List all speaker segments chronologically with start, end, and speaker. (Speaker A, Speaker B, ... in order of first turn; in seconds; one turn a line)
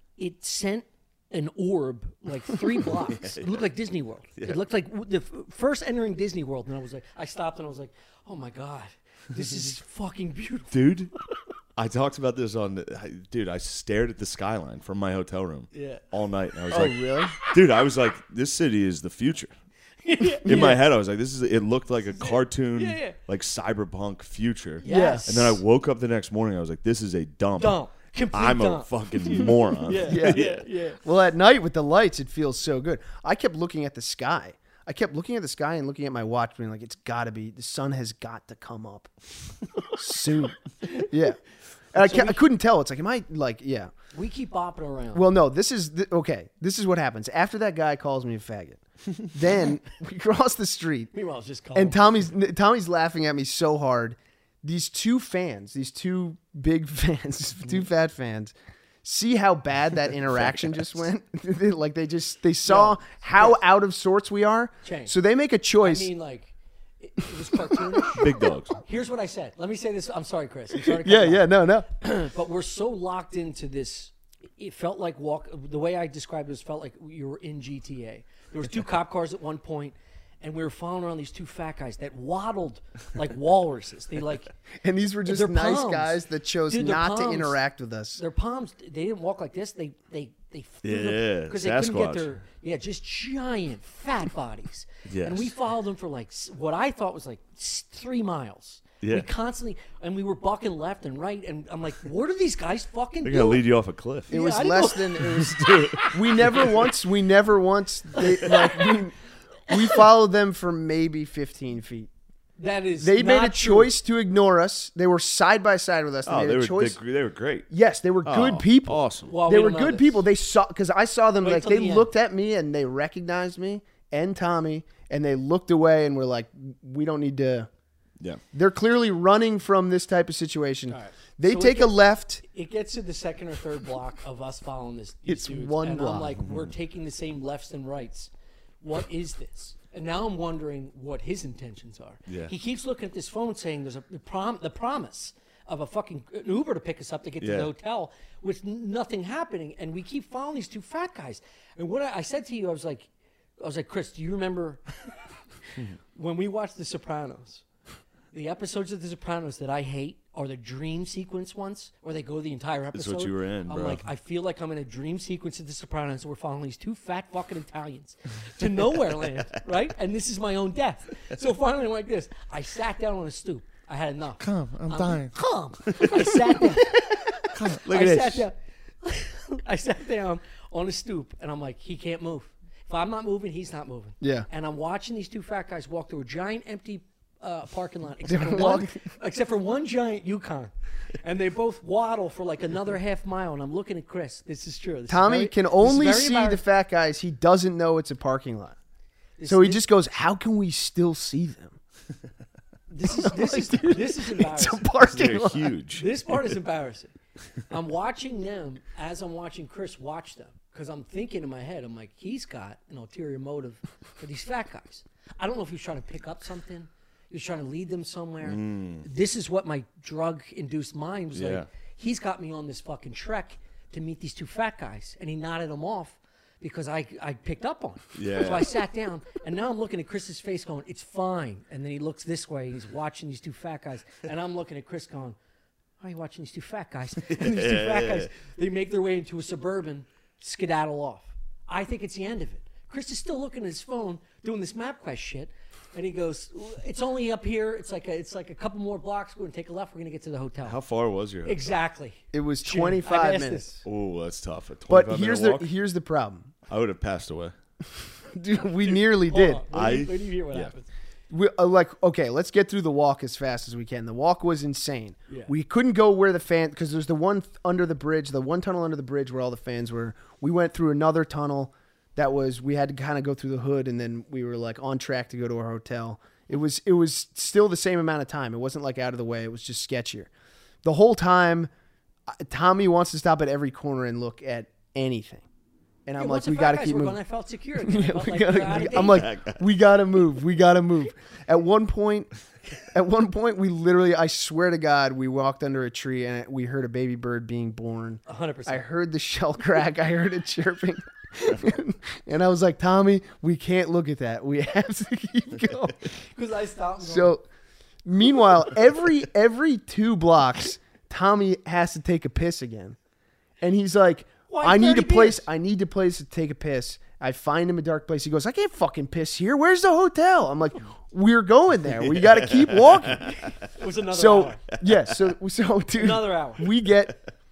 Speaker A: 0.2-10.8
Speaker B: 2.9-3.7
Speaker B: 10.7-11.1
Speaker B: 11.8-19.5
Speaker A: 15.7-16.0
Speaker C: 16.7-17.3
Speaker A: 20.0-20.8
Speaker B: 20.4-27.8
Speaker C: 20.5-20.8
Speaker A: 22.2-23.1
Speaker A: 24.8-25.6
Speaker C: 24.8-25.6
Speaker A: 27.6-31.0
Speaker B: 28.3-30.6
Speaker C: 30.1-30.5
Speaker C: 31.0-39.1
Speaker C: 39.9-41.4
Speaker A: 40.8-41.1
Speaker C: 41.9-43.9
Speaker A: 42.0-42.4
Speaker A: 44.1-45.2
Speaker C: 45.1-51.1
Speaker A: 51.1-52.0
Speaker C: 51.7-66.1
Speaker B: 60.4-60.8
Speaker A: 62.6-63.6
Speaker A: 64.8-65.1
Speaker A: 65.8-68.3
Speaker C: 67.5-68.0
Speaker B: 68.2-68.8
Speaker A: 68.8-84.5
Speaker C: 70.8-71.9
Speaker C: 84.8-88.2
Speaker A: 85.2-87.6
Speaker A: 88.2-103.6
Speaker B: 90.8-92.3
Speaker B: 95.1-95.5
Speaker B: 99.0-99.3
Speaker B: 103.2-104.3
Speaker A: 104.3-106.8
Speaker C: 104.3-112.1
Speaker B: 105.2-106.8
Speaker A: 108.3-109.0
Speaker A: 112.6-113.9
Speaker C: 113.0-117.0
Speaker B: 116.2-117.7
Speaker C: 117.7-127.7
Speaker B: 118.2-119.3
Speaker A: 119.3-120.2
Speaker A: 121.4-122.1
Speaker C: 128.5-132.4
Speaker A: 130.9-154.8
Speaker C: 135.3-136.4
Speaker B: 136.4-136.7
Speaker B: 142.3-142.5
Speaker B: 147.4-147.7
Speaker A: 155.8-157.6
Speaker A: 158.3-196.6
Speaker B: 162.9-164.1
Speaker B: 169.2-169.4
Speaker B: 174.4-176.8
Speaker B: 177.4-178.4
Speaker C: 184.2-184.5
Speaker C: 188.3-189.0
Speaker C: 195.1-198.8
Speaker A: 199.4-199.8
Speaker C: 199.4-201.8
Speaker A: 202.9-204.8
Speaker C: 203.1-205.7
Speaker B: 205.0-206.6
Speaker A: 206.0-207.1
Speaker A: 207.7-235.4
Speaker B: 218.4-219.1
Speaker B: 221.3-221.7
Speaker B: 228.1-228.7
Speaker A: 236.0-250.8
Speaker B: 237.2-238.3
Speaker B: 250.6-251.6
Speaker A: 251.4-253.8
Speaker C: 252.3-253.8
Speaker B: 253.8-255.7
Speaker C: 254.9-256.5
Speaker B: 256.7-257.5
Speaker C: 258.2-259.6
Speaker A: 258.8-260.9
Speaker B: 259.7-260.7
Speaker C: 261.3-280.3
Speaker C: 280.8-281.7
Speaker C: 282.3-285.4
Speaker C: 286.1-287.2
Speaker A: 286.2-289.2
Speaker C: 287.8-292.3
Speaker B: 288.7-289.7
Speaker C: 292.9-306.1
Speaker A: 298.3-298.8
Speaker A: 306.3-307.3
Speaker C: 307.0-307.4
Speaker C: 308.0-313.0
Speaker C: 313.6-323.4
Speaker A: 314.5-315.4
Speaker B: 322.0-323.5
Speaker A: 323.2-324.6
Speaker C: 324.1-327.2
Speaker B: 324.8-325.3
Speaker A: 325.9-326.7